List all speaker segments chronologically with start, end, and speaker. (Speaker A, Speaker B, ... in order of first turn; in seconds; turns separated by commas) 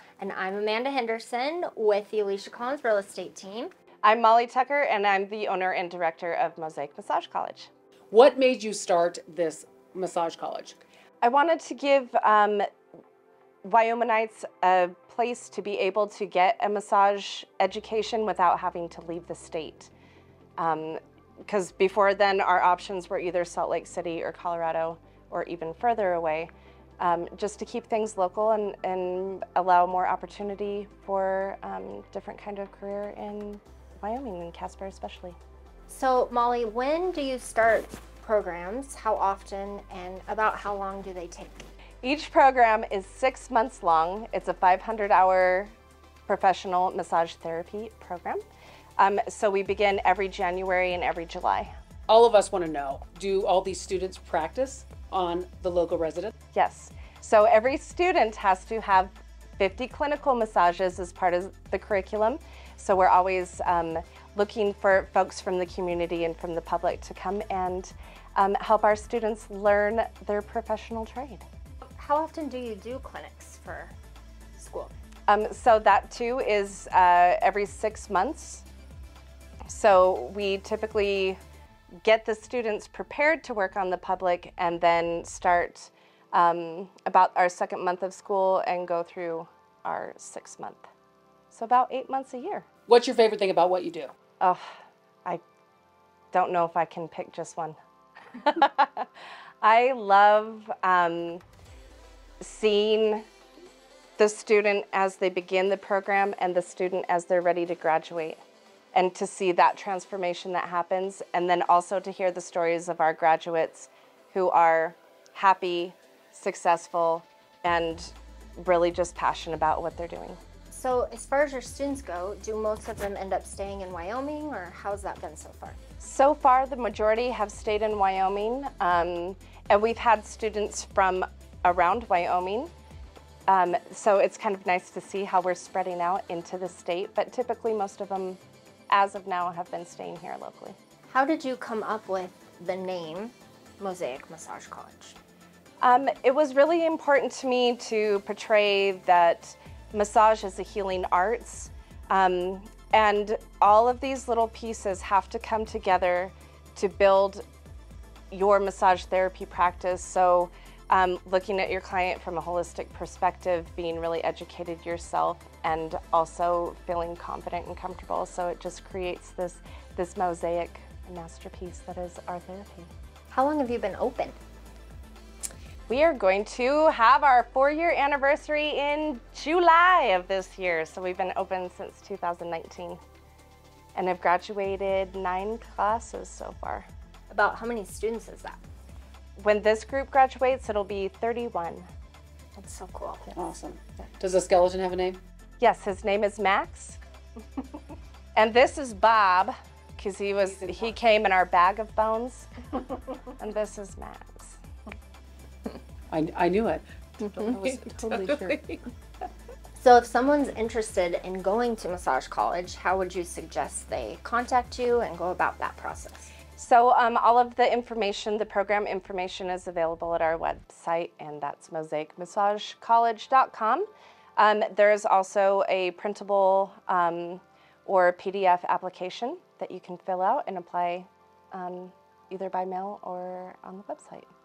Speaker A: 0.2-3.7, Speaker B: 4.0-7.7, Speaker C: 8.1-10.8, Speaker B: 11.2-12.7, Speaker B: 13.6-19.9, Speaker B: 20.6-35.4, Speaker A: 35.9-41.7, Speaker B: 42.0-45.7, Speaker B: 46.3-48.4, Speaker B: 49.0-51.7, Speaker C: 52.1-56.3, Speaker B: 56.5-71.4, Speaker A: 71.9-74.0, Speaker A: 74.6-74.9, Speaker B: 75.3-78.7, Speaker B: 79.7-81.4, Speaker B: 82.0-90.9, Speaker B: 91.5-92.7, Speaker C: 92.9-94.1, Speaker B: 94.4-94.7, Speaker B: 96.3-97.8, Speaker B: 98.3-99.1, Speaker B: 99.6-101.4, Speaker B: 102.4-103.3, Speaker B: 104.2-108.4, Speaker B: 108.9-120.4, Speaker A: 120.7-125.8, Speaker B: 126.0-132.7, Speaker B: 133.5-140.8, Speaker A: 141.1-145.2, Speaker B: 145.8-157.4, Speaker B: 158.3-172.9, Speaker A: 173.3-174.4, Speaker B: 175.9-183.0, Speaker B: 184.0-186.9, Speaker A: 187.3-188.6, Speaker B: 189.4-191.9, Speaker A: 192.6-193.4, Speaker C: 193.4-195.2, Speaker B: 195.6-197.0, Speaker B: 198.3-202.5, Speaker C: 200.6-200.9, Speaker B: 203.4-204.6, Speaker C: 206.1-208.9, Speaker A: 209.8-216.3, Speaker B: 216.6-223.9, Speaker B: 224.4-234.3